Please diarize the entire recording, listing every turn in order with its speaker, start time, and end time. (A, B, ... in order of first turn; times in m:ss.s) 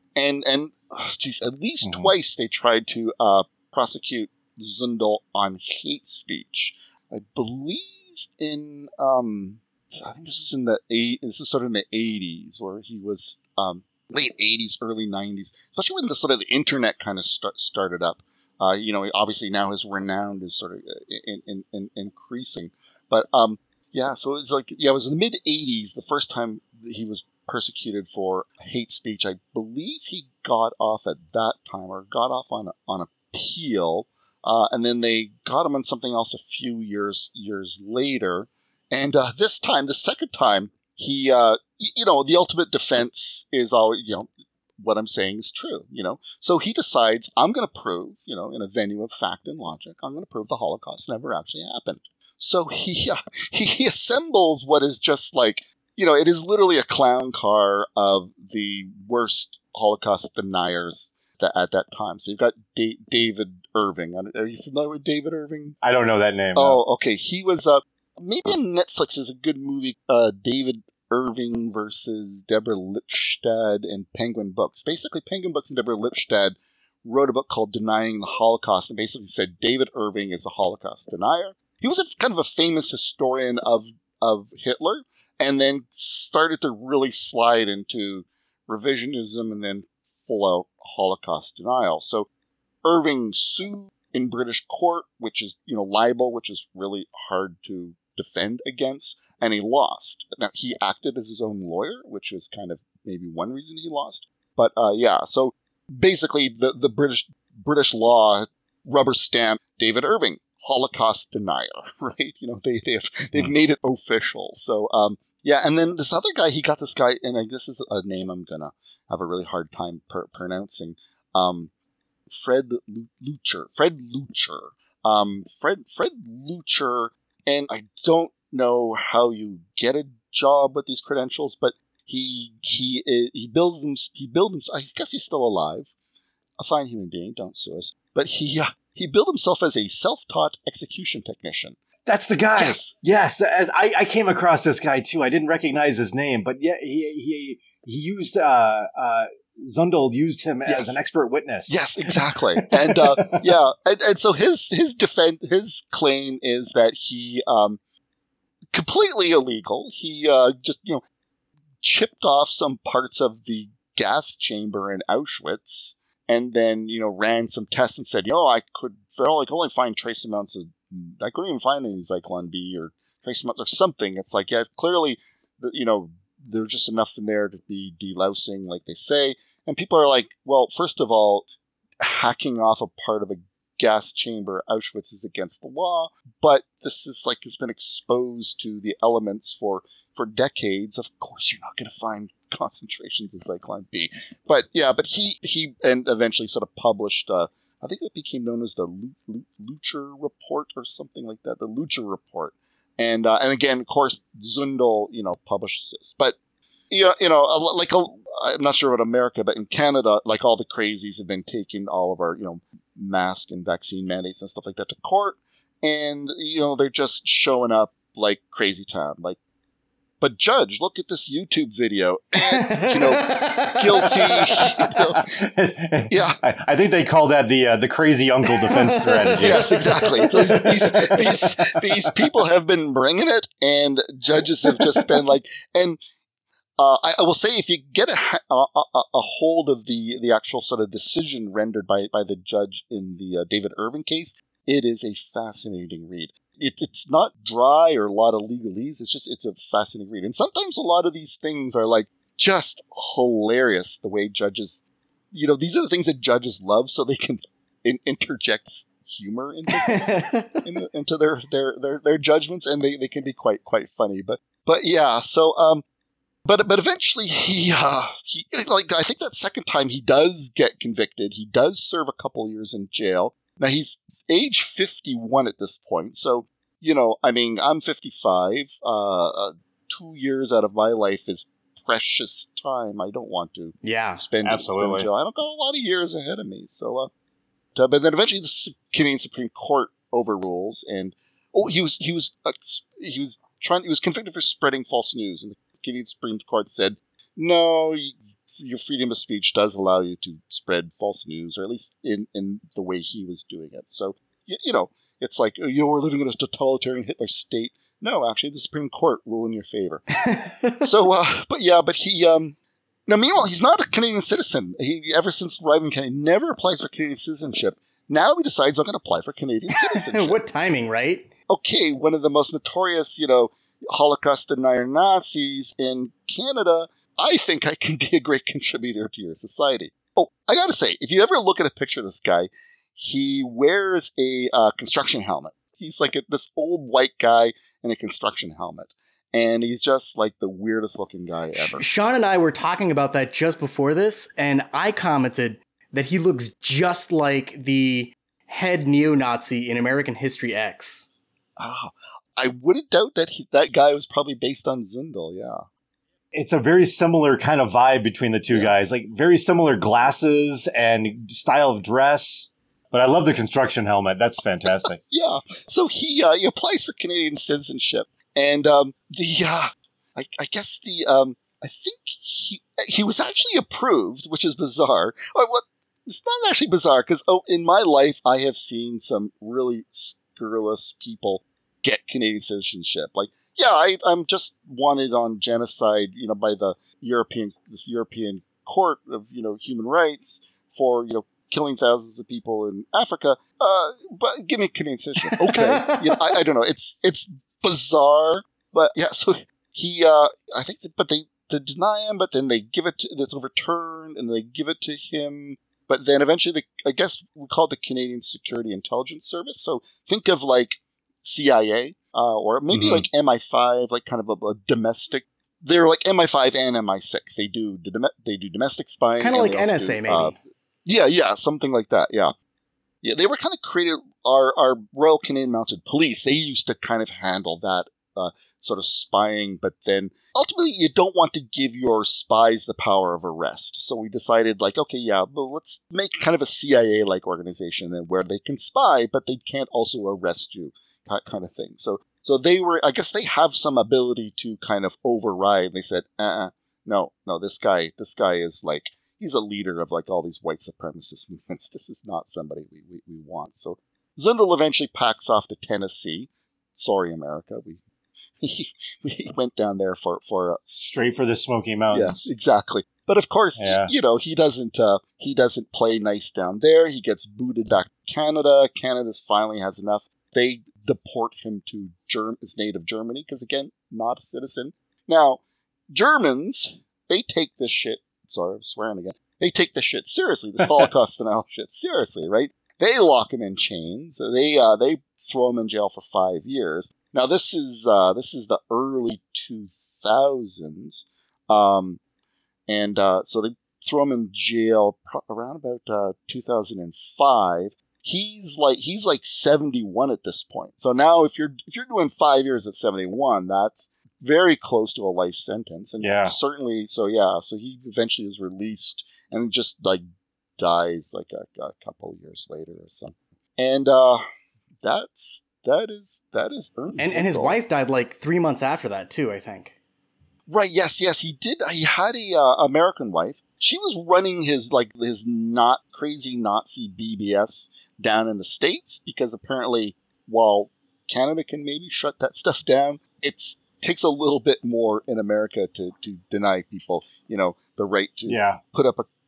0:00.1-1:05.8 A
0:01.8-0:02.1 B
1:05.8-1:06.8 B
1:06.5-1:32.3 A
1:32.8-2:01.7 A
2:02.3-2:15.9 A
2:16.6-2:21.8 A
2:22.0-2:31.9 B
2:22.6-2:22.9 A
2:30.6-2:31.0 A
2:31.7-2:37.8 A
2:32.6-2:33.5 B
2:38.7-2:41.0 A
2:41.8-3:01.4 A
3:02.0-3:26.4 A
3:26.9-3:39.4 A
3:40.2-3:45.4 A
3:42.4-3:44.6 C
3:45.3-3:51.6 B
3:46.1-3:46.4 A
3:48.6-3:50.7 C
3:49.4-3:56.0 A
3:56.8-4:25.8 A
4:19.7-4:20.6 C
4:26.4-4:47.1 A
4:43.8-4:44.3 C
4:44.4-4:45.1 B
4:47.8-5:10.0 A
5:10.2-5:10.8 C
5:10.8-5:12.6 A
5:13.1-5:20.4 A
5:19.7-5:21.3 C
5:21.5-5:41.8 A
5:41.5-5:51.1 C
5:51.6-5:55.6 A
5:56.3-6:05.0 B
5:58.5-5:58.7 A
6:04.8-7:02.3 A
6:35.2-6:36.3 C
6:52.7-6:53.0 B
6:59.2-7:00.4 C
7:03.0-7:37.8 A
7:38.4-7:40.6 A
7:40.7-7:42.3 B
7:41.9-8:12.0 A
7:43.6-7:43.9 B
8:12.7-8:30.0 A
8:26.0-8:26.4 B
8:30.6-8:34.2 A
8:34.8-8:37.6 A
8:37.0-8:39.8 C
8:40.5-8:59.1 A
8:58.3-8:58.6 B